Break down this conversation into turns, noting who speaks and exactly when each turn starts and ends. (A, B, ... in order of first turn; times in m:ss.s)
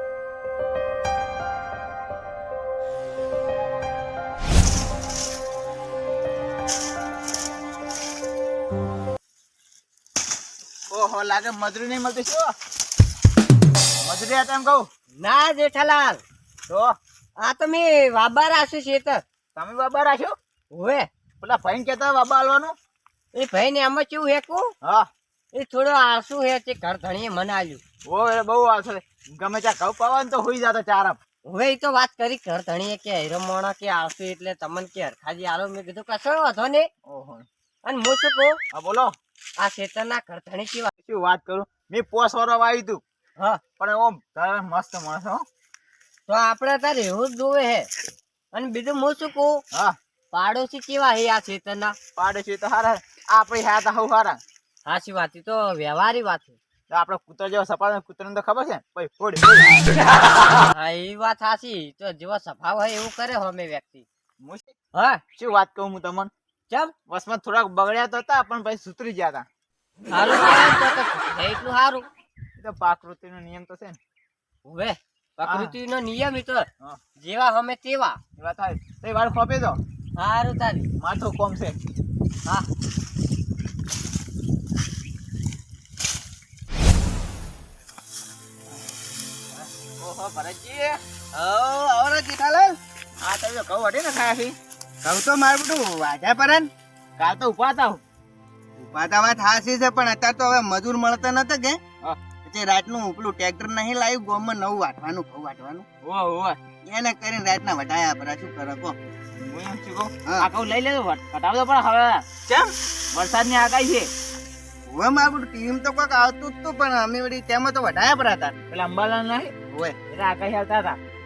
0:10.9-0:12.5 A
0:14.0-0:14.9 A
0:15.2-0:16.2 B
0:16.7-0:17.0 A
0:17.4-0:19.2 B
0:19.6-0:20.4 A
0:20.7-0:21.1 B
0:21.4-0:22.8 A
0:23.3-0:24.7 B
0:25.5-0:27.8 B
0:28.1-0:31.2 A
0:31.5-0:36.9 B
0:37.1-0:37.5 A
0:37.8-0:38.6 B
0:38.7-0:39.1 A
0:39.6-0:40.9 B
0:41.0-0:43.0 A
0:43.8-0:45.4 A
0:46.3-0:47.9 B
0:48.5-0:49.6 B
0:50.3-0:52.0 B
0:52.2-0:54.4 A
0:54.9-0:56.6 B
0:56.9-0:59.8 A
1:00.7-1:04.1 B
1:04.4-1:04.7 A
1:04.9-1:05.2 B
1:05.4-1:06.3 A
1:07.1-1:09.5 A
1:10.1-1:12.0 B
1:12.6-1:14.0 A
1:14.6-1:16.7 B
1:15.5-1:15.7 A
1:17.2-1:18.2 B
1:18.4-1:19.8 A
1:20.2-1:20.9 B
1:21.0-1:21.8 A
1:30.0-1:31.0 A
1:31.3-1:32.8 C
1:33.2-1:34.6 A
1:35.0-1:36.7 C
1:37.2-1:38.0 A
1:38.8-1:41.8 C
1:42.4-1:45.9 C
1:46.0-1:46.6 A
1:46.9-1:49.0 C
1:49.4-1:54.1 A
1:54.9-1:58.6 C
1:58.7-1:59.5 A
1:59.7-2:00.0 C
2:00.1-2:01.0 A